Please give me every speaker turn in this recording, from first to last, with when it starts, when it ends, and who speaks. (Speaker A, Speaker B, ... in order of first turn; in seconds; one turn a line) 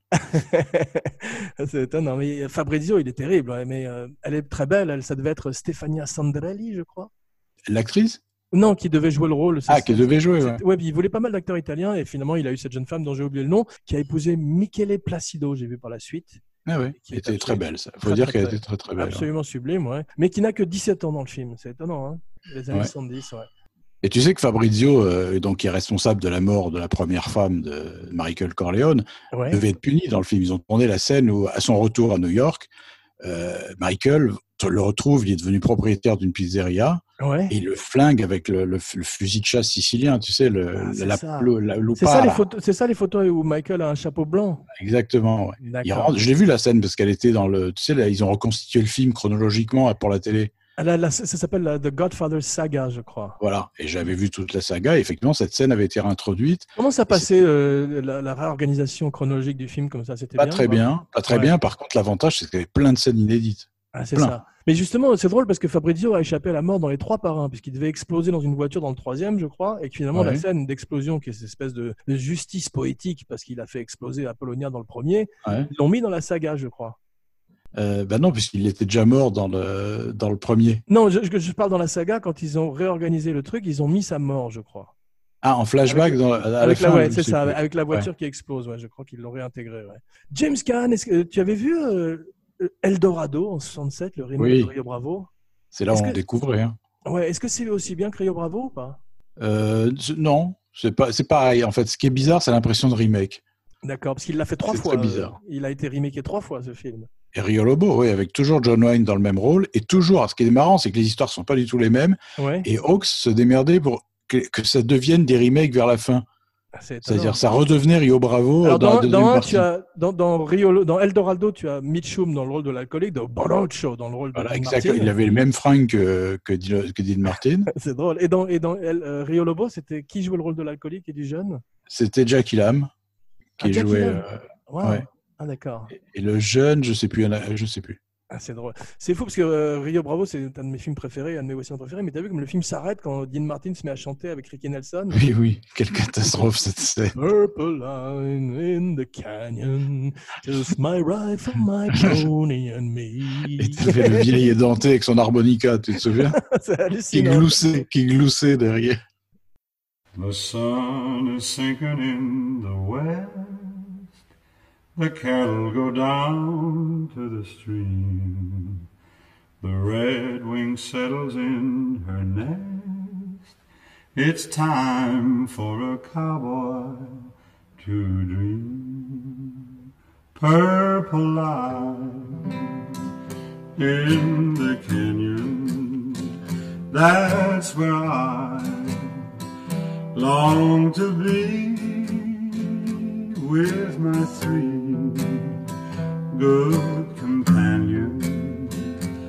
Speaker A: 0.1-7.1
Speaker B: 7.7-8.2
Speaker A: 8.5-16.4
Speaker B: 9.7-10.6
Speaker B: 16.6-19.3
Speaker A: 17.0-23.5
Speaker B: 24.0-32.7
Speaker A: 29.3-29.6
Speaker B: 33.2-42.4
Speaker A: 37.2-37.5
Speaker A: 40.8-44.6
Speaker B: 44.7-50.5
Speaker A: 45.6-46.1
Speaker A: 50.8-53.4
Speaker B: 53.4-57.3
Speaker A: 56.8-61.5
Speaker B: 60.4-64.3
Speaker A: 63.9-77.0
Speaker B: 70.1-70.4
Speaker B: 75.4-75.7
Speaker B: 77.7-80.8
Speaker A: 80.9-84.9
Speaker B: 85.4-88.1
Speaker A: 85.9-95.3
Speaker B: 94.4-94.7
Speaker B: 95.7-96.8
Speaker A: 95.9-96.2
Speaker A: 97.0-99.0
Speaker B: 99.4-103.4
Speaker A: 103.8-107.1
Speaker B: 104.7-105.3
Speaker B: 107.3-116.2
Speaker A: 112.4-112.7
Speaker A: 116.8-117.4
Speaker B: 117.0-119.7
Speaker A: 118.6-125.1
Speaker B: 124.3-127.7
Speaker A: 127.7-131.6
Speaker B: 131.9-132.9
Speaker B: 133.6-135.0
Speaker A: 133.6-135.9
Speaker B: 135.9-138.0
Speaker A: 138.3-145.2
Speaker B: 145.1-147.2
Speaker A: 147.2-154.4
Speaker B: 152.0-152.2
Speaker B: 153.6-156.4
Speaker A: 156.0-157.6
Speaker B: 157.1-159.0
Speaker C: 160.2-164.0
Speaker C: 164.9-168.8
Speaker C: 169.6-173.4
Speaker C: 174.1-179.4
Speaker C: 180.3-182.6
Speaker C: 183.7-186.3
Speaker C: 186.9-189.2
Speaker C: 190.1-192.8
Speaker C: 193.4-195.5
Speaker C: 196.3-198.7